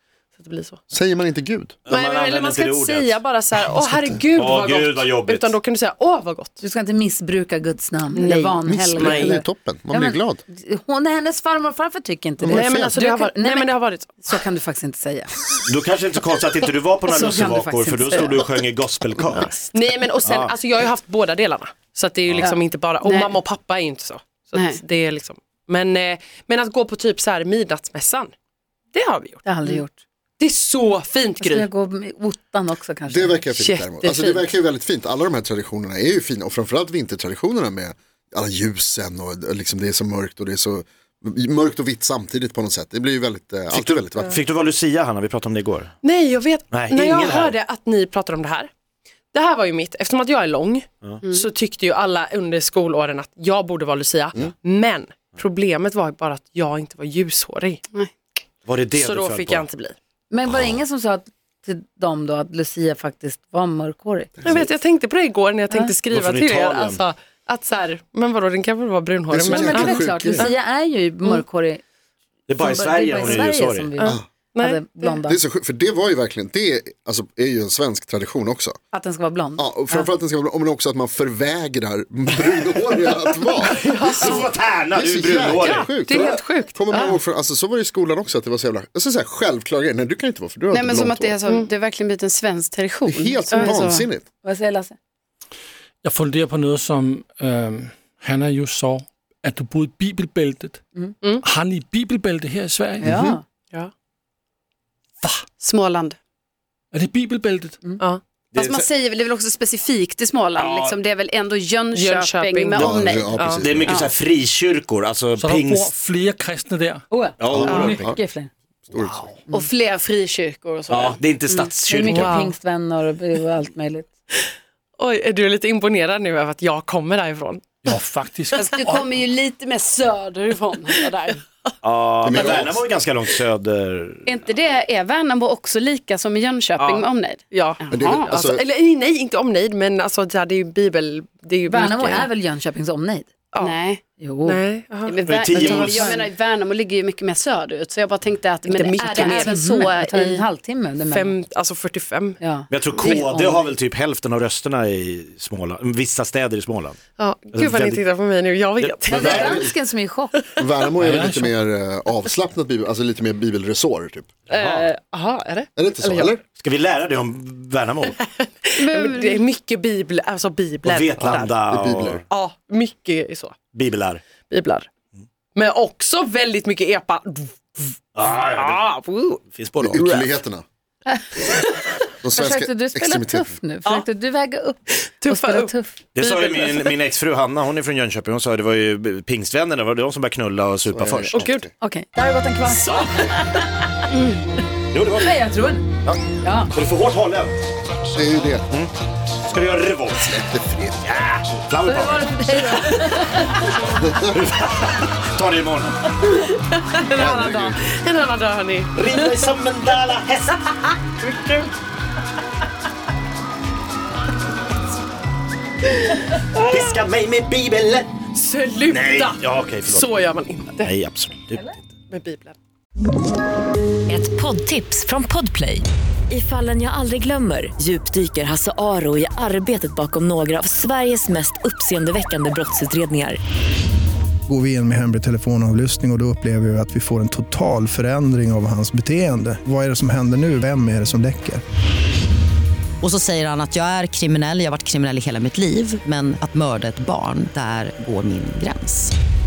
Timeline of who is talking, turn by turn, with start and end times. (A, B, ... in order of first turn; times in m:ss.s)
0:00.4-0:00.8 A
0:00.9-0:01.8 B
0:01.9-0:03.2 C
0:01.9-0:06.6 A
0:03.8-0:04.2 B
0:04.3-0:05.6 C
0:06.6-0:15.6 D
0:08.2-0:09.4 A
0:08.6-0:10.4 B
0:12.5-0:14.4 A
0:12.5-0:12.9 B
0:15.7-0:19.5 C
0:17.1-0:18.5 D
0:19.4-0:28.3 A
0:20.2-0:20.5 C
0:22.3-0:22.5 C
0:23.0-0:23.4 E
0:24.6-0:24.8 E
0:28.9-0:29.7 A
0:29.4-0:30.0 D
0:30.4-0:31.7 A
0:31.4-0:33.4 D
0:33.1-0:44.4 B
0:33.5-0:34.5 A
0:43.7-0:46.0 C
0:46.0-0:48.7 A
0:46.7-0:47.6 C
0:49.3-0:57.8 A
0:51.0-0:51.3 C
0:51.2-0:51.5 E
0:58.7-0:59.7 C
0:59.0-1:00.0 A
1:00.3-1:04.6 D
1:04.4-1:10.5 A
1:05.7-1:06.0 D
1:06.1-1:07.0 C
1:09.3-1:10.5 B
1:09.5-1:11.8 D
1:12.5-1:14.0 C
1:12.6-1:15.4 D
1:14.0-1:15.2 A
1:15.2-1:18.8 B
1:18.9-1:20.1 D
1:19.6-1:31.3 B
1:23.7-1:24.5 A
1:23.8-1:26.4 C
1:25.7-1:27.2 A
1:30.7-1:34.1 E
1:33.1-1:34.2 B
1:33.4-1:33.8 D
1:34.4-1:35.0 D
1:36.0-1:40.8 F
1:41.4-1:43.1 F
1:43.0-1:43.4 D
1:43.0-1:43.4 B
1:45.6-1:46.2 E
1:46.9-1:47.8 F
1:48.5-1:48.9 C
1:48.6-1:54.1 E
1:50.6-1:51.0 C
1:51.9-1:53.6 A
1:52.8-1:54.1 B
1:52.8-1:55.9 C
1:55.4-1:58.0 F
1:57.1-1:58.5 D
1:57.4-1:58.0 C
1:57.5-1:58.2 B
1:57.6-1:58.0 E
1:58.9-1:59.3 B
1:58.9-1:59.4 F
1:59.5-2:01.7 E
2:00.9-2:02.4 C
2:01.9-2:04.1 D
2:02.1-2:02.5 A
2:05.0-2:07.9 A
2:07.8-2:09.0 F
2:08.6-2:11.4 E
2:11.8-2:14.4 C
2:12.2-2:12.9 B
2:14.3-2:18.4 E
2:16.8-2:22.3 A
2:17.9-2:18.6 B
2:21.7-2:23.3 D
2:23.5-2:23.8 A
2:23.6-2:24.0 E
2:24.2-2:24.6 D
2:24.4-2:25.9 A
2:25.1-2:30.4 E
2:25.2-2:26.2 C
2:25.6-2:26.2 D
2:28.6-2:29.9 A
2:29.0-2:31.4 D
2:31.0-2:32.4 A
2:32.4-2:33.8 D
2:32.7-2:37.0 C
2:37.2-2:39.7 A
2:37.5-2:38.1 C
2:38.8-2:39.5 C
2:39.1-2:40.5 D
2:39.1-2:39.7 B
2:40.6-2:44.3 B
2:41.0-2:41.5 F
2:44.5-2:44.9 C
2:44.5-2:46.4 A
2:45.8-2:46.4 B
2:46.6-2:48.2 C
2:48.2-2:51.6 A
2:48.8-2:49.4 E
2:50.8-2:52.2 C
2:51.7-2:52.2 B
2:52.3-2:53.6 A
2:53.7-2:54.2 C
2:54.5-2:54.9 A
2:55.6-2:59.4 A
2:58.2-2:58.8 C
2:59.5-3:00.2 C
2:59.8-3:00.6 B
3:02.2-3:03.5 B
3:02.4-3:06.0 D
3:05.2-3:07.0 A
3:06.2-3:11.4 C
3:10.9-3:11.7 B
3:11.3-3:11.7 A
3:11.8-3:13.8 D
3:14.9-3:15.4 C
3:15.2-3:15.8 D
3:16.0-3:17.6 C
3:16.4-3:16.7 D
3:18.1-3:18.7 B
3:19.4-3:20.4 C
3:20.1-3:21.1 B
3:21.0-3:22.7 C
3:21.8-3:24.0 D
3:22.6-3:23.3 A
3:24.0-3:24.4 B
3:24.3-3:26.1 C
3:26.2-3:29.2 A
3:27.1-3:27.9 B
3:29.0-3:31.7 C
3:36.1-3:36.8 A
3:36.6-3:38.2 C
3:38.3-3:40.9 A
3:38.9-3:40.1 C
3:40.8-3:41.9 C
3:42.1-3:42.6 A
3:44.1-3:53.4 G
3:54.5-4:01.6 H
4:03.0-4:09.1 I